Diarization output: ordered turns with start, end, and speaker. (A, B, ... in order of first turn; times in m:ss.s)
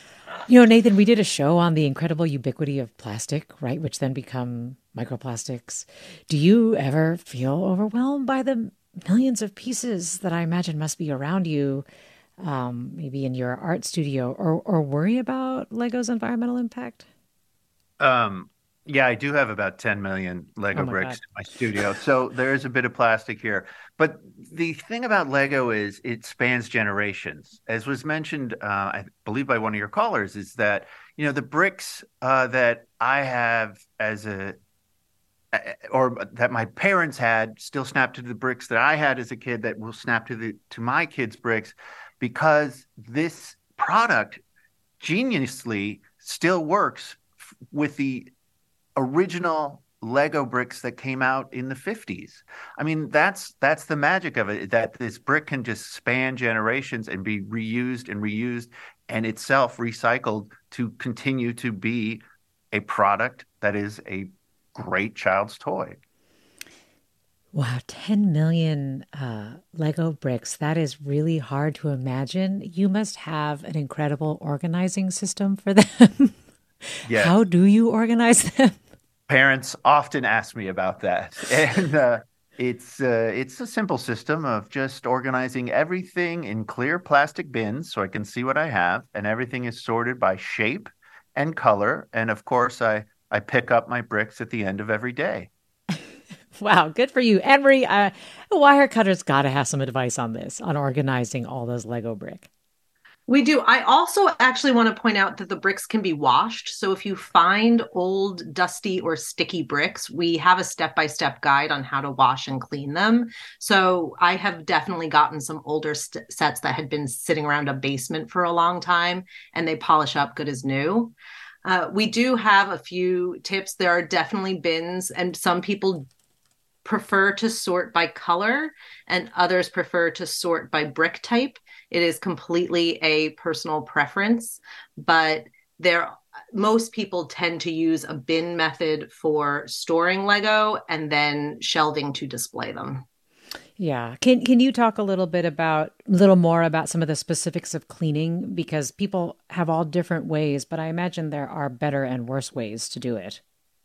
0:00.5-0:11.8 A
0:12.4-0:17.0 A
0:18.0-0:34.6 B
0:20.7-0:21.2 A
0:35.5-0:44.4 B
0:45.0-0:48.3 B
0:49.0-1:06.0 B
1:07.5-1:16.4 A
1:17.0-1:17.3 B
1:17.1-1:18.8 A
1:19.3-1:35.5 B
1:36.6-1:42.5 A
1:43.3-2:01.1 C
2:01.6-2:06.1 C
2:06.8-2:23.0 C
2:23.8-2:33.4 A